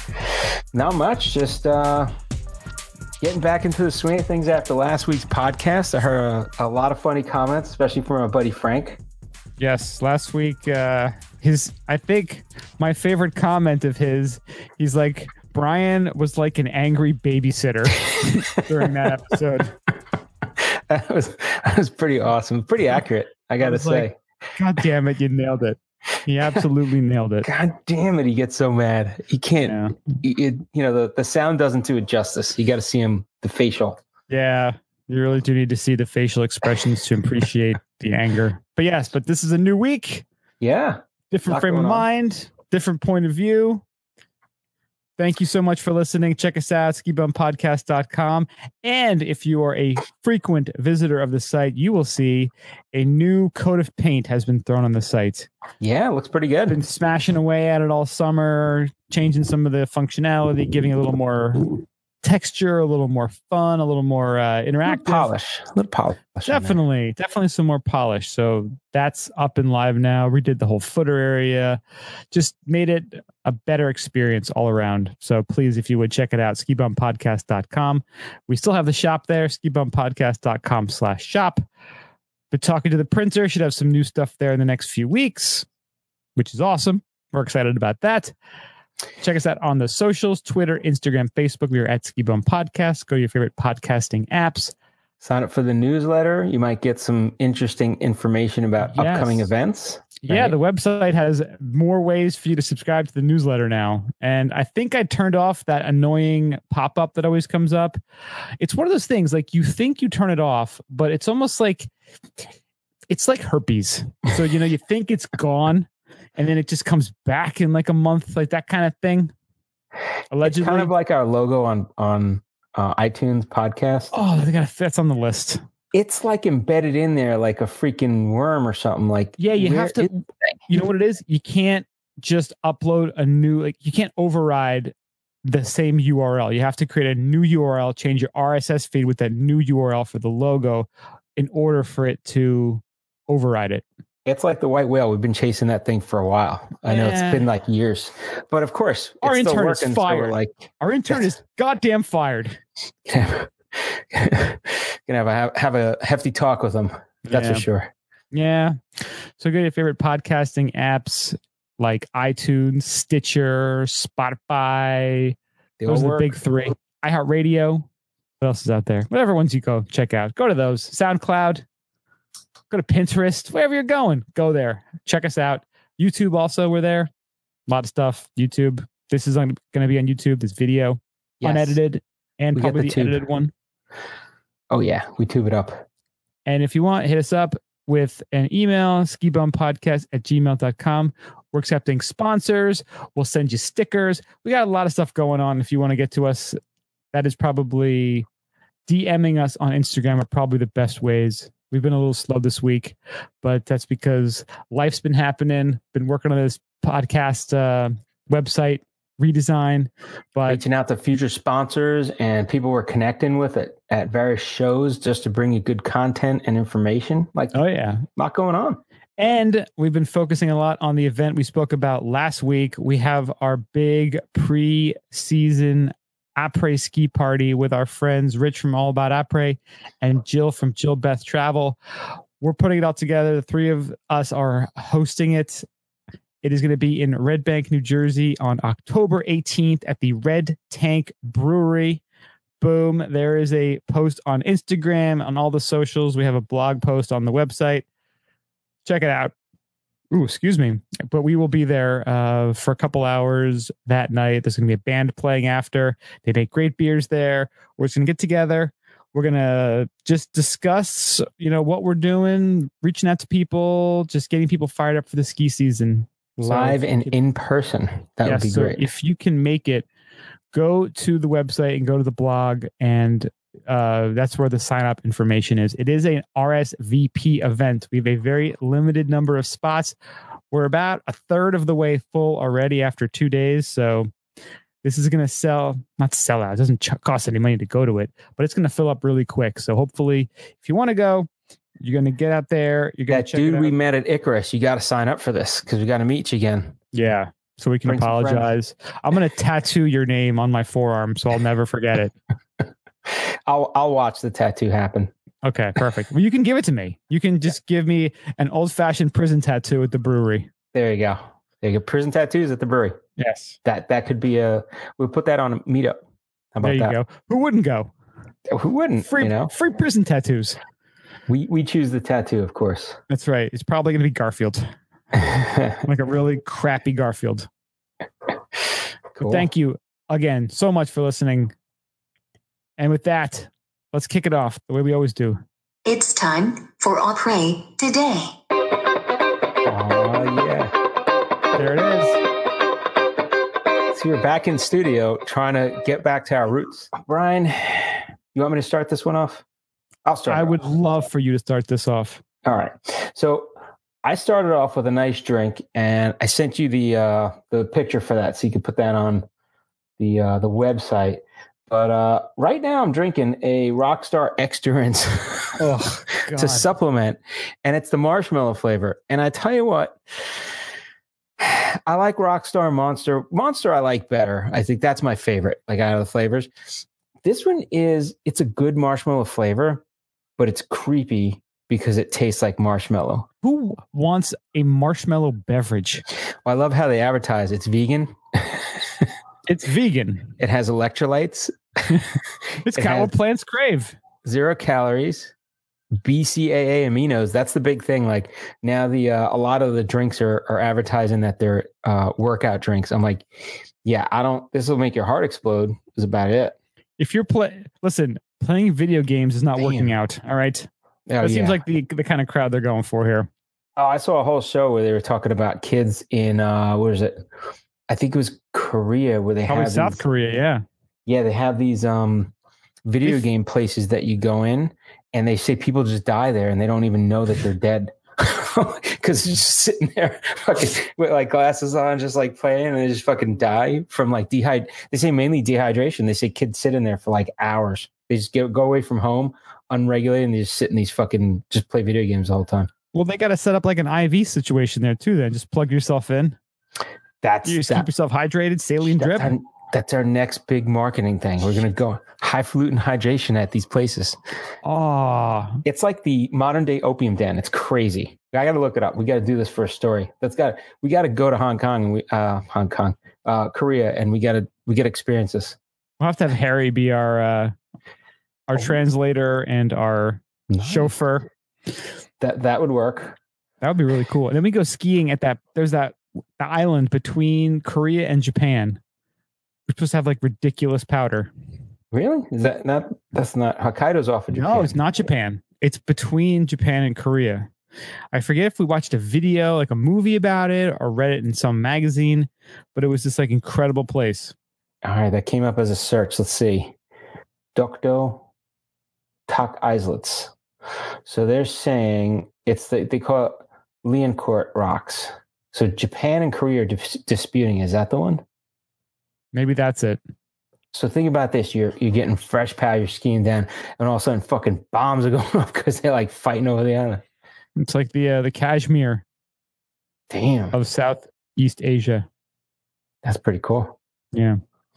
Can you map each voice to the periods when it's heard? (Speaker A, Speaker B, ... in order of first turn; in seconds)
Speaker A: 0.7-2.1, 3.2-9.0, 18.6-18.9, 20.6-24.2, 27.4-34.0, 40.6-42.0, 55.8-56.8, 64.8-66.8, 95.2-100.5, 120.4-124.1, 125.9-130.1, 144.2-151.2, 153.1-157.9, 165.8-166.4, 181.4-181.8, 182.5-183.2, 184.7-185.8, 210.5-217.5, 218.2-218.8, 266.4-268.8, 293.1-296.8, 297.8-298.5, 303.1-305.1, 310.7-313.0, 313.6-316.0, 316.5-316.9, 318.5-319.5, 321.3-323.0, 325.1-325.8, 329.1-329.5, 339.6-340.7, 343.9-349.4, 350.1-350.6, 352.4-353.5, 354.0-359.2, 360.0-365.6, 366.3-370.5, 371.4-376.5, 377.2-379.8, 380.4-383.3, 386.4-389.1, 390.4-392.2, 392.7-393.1, 394.2-395.3, 395.9-403.3, 403.8-406.6, 409.6-409.9, 411.1-411.6, 413.8-417.2, 417.9-420.0, 421.1-422.3, 422.9-442.7, 447.2-447.9, 448.9-454.2, 455.6-465.6, 470.5-470.9, 472.2-473.2, 481.9-484.8, 494.8-496.7, 497.5-498.2, 499.3-500.3, 501.1-508.2, 510.7-517.0, 520.1-520.5, 523.0-523.8
Speaker B: 9.6-19.8, 23.6-27.5, 29.6-30.0, 34.3-40.2, 41.3-43.8, 45.2-55.5, 56.7-65.3, 66.5-71.8, 72.3-81.6, 82.5-85.7, 86.3-88.3, 89.2-94.7, 98.9-99.5, 100.2-108.0, 108.6-111.9, 113.1-119.3, 120.3-120.9, 124.1-125.6, 129.4-143.8, 146.8-147.4, 149.2-152.6, 157.3-157.7, 158.3-165.3, 165.9-167.9, 168.4-171.6, 172.7-177.1, 177.7-183.5, 186.4-196.6, 197.1-198.2, 198.9-210.6, 217.5-218.1, 219.2-231.8, 232.4-235.7, 236.4-242.0, 242.6-247.8, 248.8-249.3, 250.1-267.1, 268.2-269.9, 270.5-279.9, 280.5-284.1, 284.8-291.3, 291.8-293.7, 296.9-302.1, 305.4-310.5, 313.2-313.6, 316.6-317.9, 319.0-320.6, 323.1-324.7, 325.8-327.5, 329.2-331.5, 332.8-335.4, 341.5-342.2, 350.3-352.2, 365.6-366.7, 383.4-386.0, 389.5-390.4, 392.6-394.0, 407.0-410.7, 411.2-413.3, 419.5-420.6, 442.9-446.4, 447.4-449.3, 454.6-455.6, 466.0-467.5, 468.5-471.3, 473.6-478.8, 479.7-481.3, 484.3-487.5, 488.1-494.3, 509.3-510.0, 517.6-519.0, 520.5-522.1, 524.1-524.4
Speaker C: 335.9-338.3